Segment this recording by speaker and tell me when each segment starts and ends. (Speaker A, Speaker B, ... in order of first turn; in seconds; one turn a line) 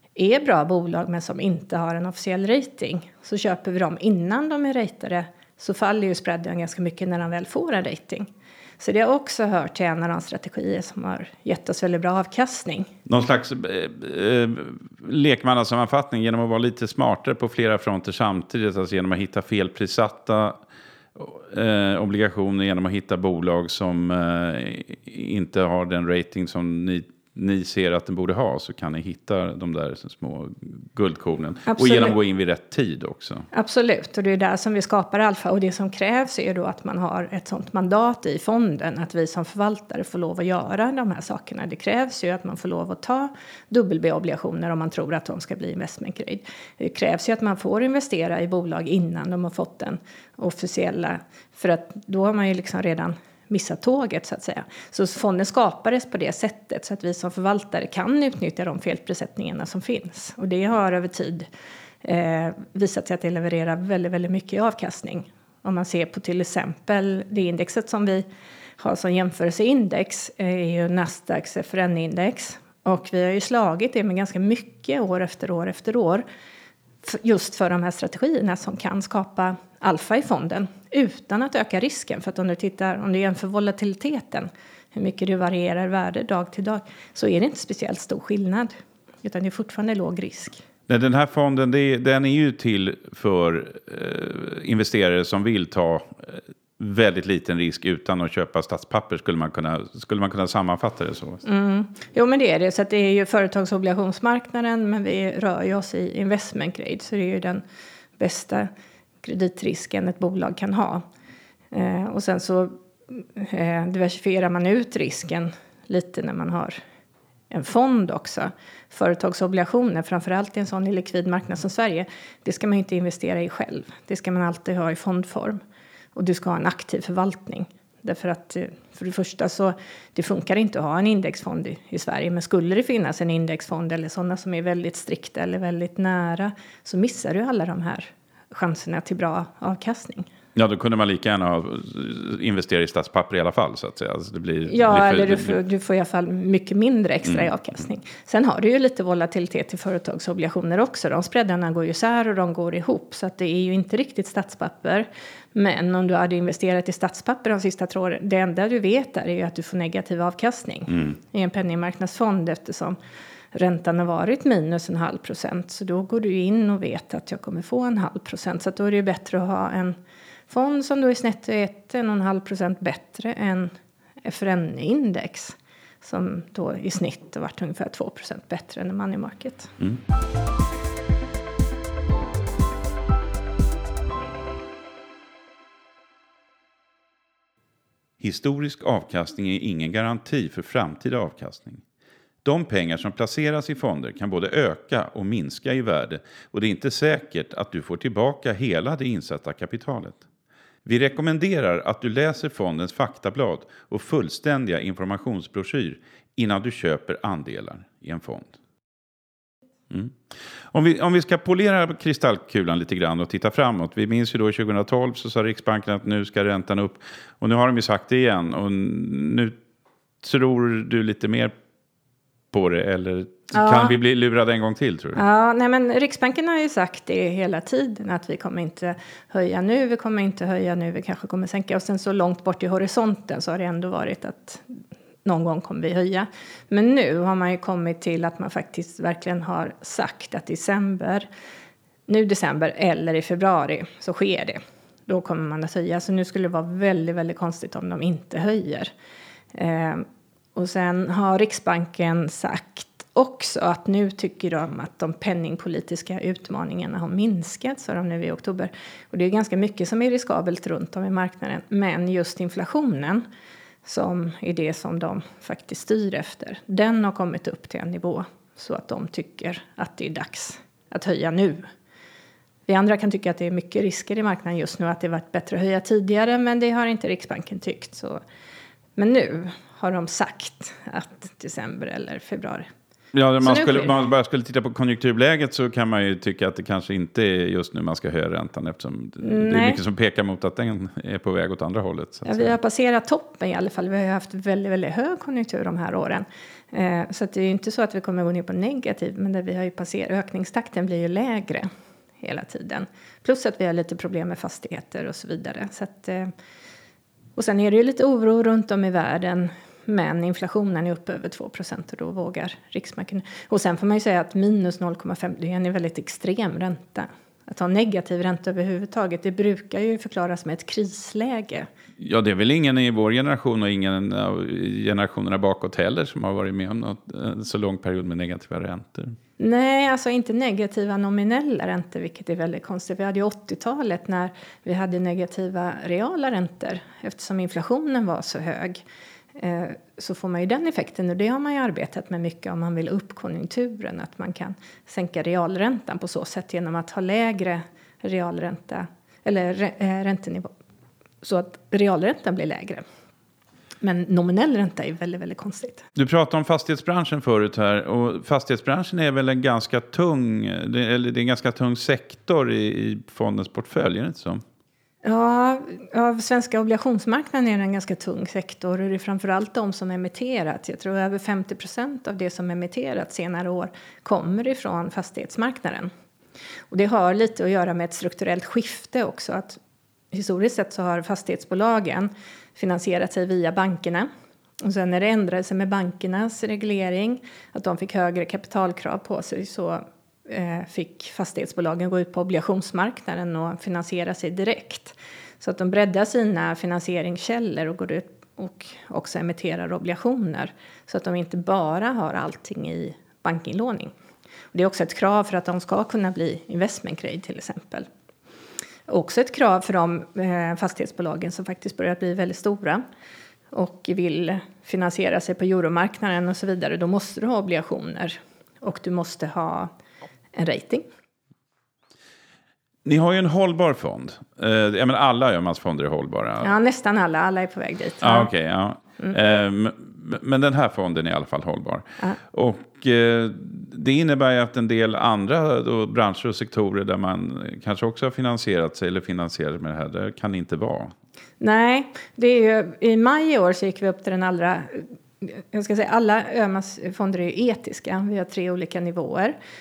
Speaker A: 0.1-12.9
Speaker B: 13.1-20.6
Speaker B: 21.1-33.5
Speaker A: 31.7-32.1
Speaker A: 33.5-61.5
Speaker A: 62.0-68.2
Speaker A: 68.8-76.2
Speaker A: 77.0-90.6
Speaker B: 90.9-101.4
Speaker A: 101.4-107.6
Speaker A: 108.2-108.7
Speaker A: 109.2-111.0
Speaker A: 111.7-116.8
Speaker A: 117.5-125.6
Speaker A: 126.1-140.3
Speaker B: 140.5-145.6
Speaker A: 144.6-163.0
Speaker A: 163.5-169.9
Speaker A: 170.5-173.7
Speaker A: 174.2-179.7
Speaker B: 188.2-191.8
Speaker B: 192.4-200.2
Speaker B: 200.8-208.5
Speaker B: 209.9-210.2
Speaker B: 210.7-219.5
Speaker B: 220.2-221.5
Speaker B: 222.5-225.2
Speaker A: 223.5-223.9
Speaker A: 225.1-241.3
Speaker A: 242.1-248.9
Speaker A: 249.5-263.2
Speaker A: 263.8-271.6
Speaker A: 272.7-278.2
Speaker A: 279.0-282.7
Speaker B: 283.1-292.6
Speaker A: 283.4-283.9
Speaker A: 289.2-289.8
Speaker A: 292.2-301.7
Speaker A: 302.2-306.3
Speaker A: 307.4-321.7
Speaker B: 322.0-329.1
Speaker A: 329.4-338.8
Speaker A: 339.4-350.5
Speaker A: 351.2-352.8
Speaker A: 353.8-355.9
Speaker B: 355.9-364.4
Speaker A: 365.0-375.9
Speaker A: 376.7-379.6
Speaker A: 380.1-384.1
Speaker A: 384.6-403.9
Speaker A: 404.5-407.9
Speaker A: 408.9-412.8
Speaker A: 413.5-419.7
Speaker A: 420.3-420.8
Speaker B: 422.8-426.5
Speaker A: 426.4-428.3
Speaker B: 428.0-440.9
Speaker A: 441.4-449.3